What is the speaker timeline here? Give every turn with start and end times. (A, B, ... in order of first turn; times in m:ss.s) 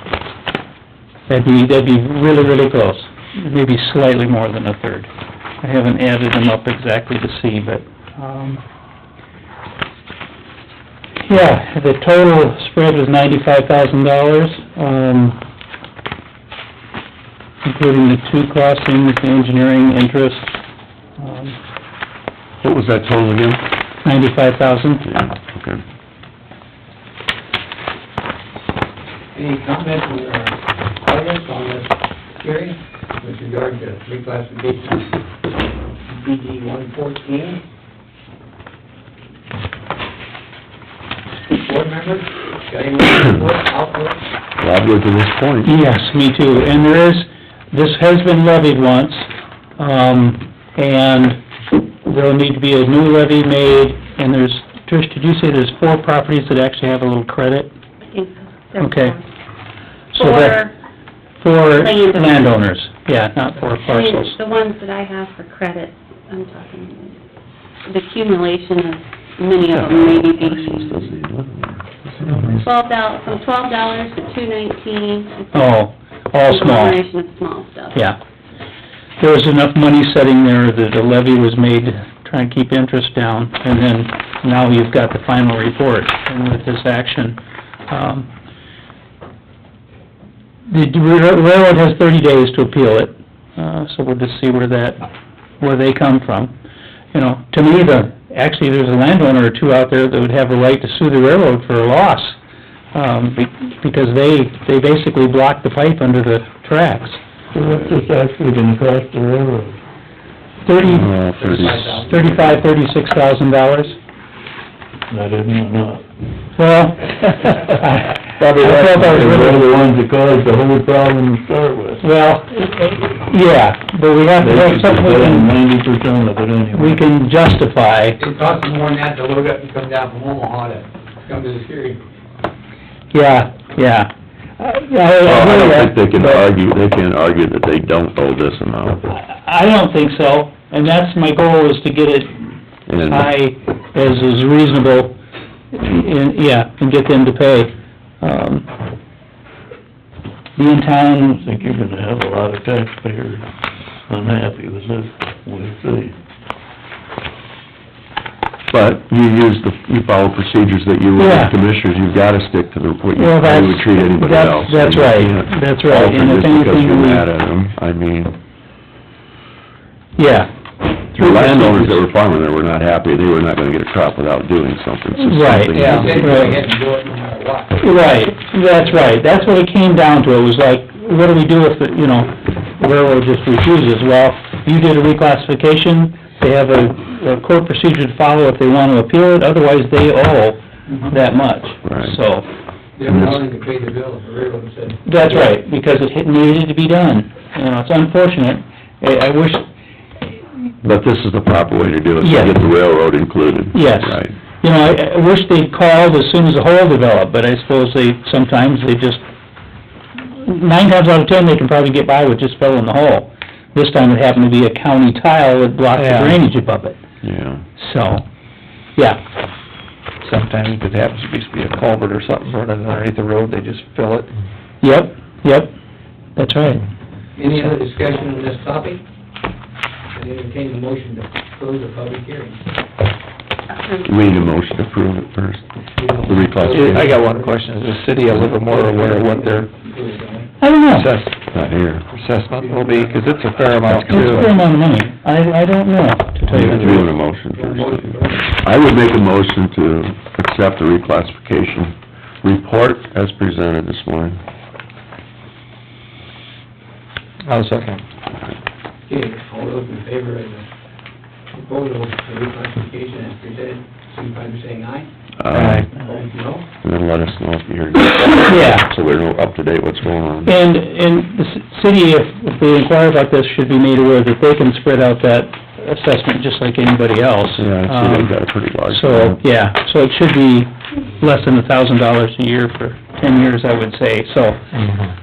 0:01.3-0:05.1 A
0:05.6-0:08.6 A
0:11.3-0:15.4 A
0:17.6-0:20.5 A
0:21.2-0:21.5 A
0:22.6-0:23.6 B
0:24.0-0:25.1 A
0:25.0-0:25.8 B
0:29.3-0:35.1 C
0:36.1-0:37.6 C
0:41.5-0:44.2 C
0:44.6-0:45.7 B
0:45.7-0:49.3 A
0:49.8-0:51.4 A
0:52.0-0:57.7 A
0:58.1-0:59.2 D
0:58.8-0:59.2 A
1:00.1-1:00.7 D
1:00.2-1:00.6 A
1:01.4-1:04.3 A
1:01.7-1:02.5 D
1:03.8-1:07.2 D
1:07.8-1:11.0 D
1:09.8-1:12.6 B
1:12.6-1:15.7 D
1:15.5-1:17.0 A
1:16.4-1:18.0 D
1:19.2-1:27.4 A
1:27.9-1:28.3 A
1:30.7-1:35.0 A
1:35.6-1:36.5 A
1:37.1-1:42.4 A
1:42.9-1:47.2 A
1:47.5-1:49.8 E
1:50.6-1:51.0 A
1:50.8-1:52.1 B
1:51.0-1:52.6 C
1:52.0-1:54.0 A
1:55.1-1:56.0 E
1:56.6-1:59.6 A
1:58.4-1:59.5 F
1:58.6-2:02.0 E
2:02.0-2:05.5 A
2:04.4-2:07.0 E
2:06.8-2:08.2 A
2:08.2-2:12.0 C
2:13.1-2:16.4 A
2:15.2-2:19.0 B
2:19.1-2:22.5 A
2:22.9-2:23.3 B
2:23.0-2:25.2 A
2:25.7-2:28.7 A
2:30.6-2:31.4 A
2:31.3-2:33.4 E
2:34.1-2:36.1 E
2:38.7-2:48.4 B
2:41.2-2:41.5 A
2:43.2-2:47.2 A
2:50.2-2:50.5 A
2:51.1-2:56.7 B
2:51.2-2:51.8 A
2:55.2-2:56.5 A
2:55.7-2:57.8 C
2:57.8-3:10.6 A
3:10.9-3:11.1 C
3:11.1-3:12.5 A
3:11.8-3:12.2 B
3:13.0-3:15.6 C
3:13.0-3:13.4 B
3:15.0-3:19.6 A
3:20.8-3:24.3 B
3:22.2-3:22.5 A
3:23.7-3:29.2 A
3:30.4-3:37.0 A
3:35.9-3:36.4 F
3:37.2-3:37.6 B
3:37.8-3:38.2 A
3:39.0-3:39.2 A
3:40.2-3:44.3 F
3:44.8-3:45.7 A
3:46.4-3:46.8 A
3:47.4-3:49.0 C
3:50.1-3:52.6 C
3:54.0-3:55.7 B
3:56.0-3:57.7 C
3:56.2-3:57.1 B
3:56.7-3:59.7 F
3:58.3-4:00.5 C
4:00.6-4:01.1 A
4:00.9-4:01.3 F
4:01.5-4:02.0 B
4:02.1-4:04.5 F
4:02.5-4:04.3 C
4:03.9-4:04.5 B
4:04.1-4:07.0 A
4:06.5-4:14.4 B
4:06.6-4:07.0 F
4:07.5-4:08.6 C
4:17.4-4:18.0 F
4:19.1-4:20.7 C
4:21.5-4:25.1 C
4:25.4-4:25.9 B
4:25.5-4:25.9 F
4:25.9-4:26.6 C
4:26.8-4:30.6 B
4:28.5-4:28.9 A
4:30.5-4:38.3 A
4:37.6-4:39.4 B
4:38.9-4:44.6 A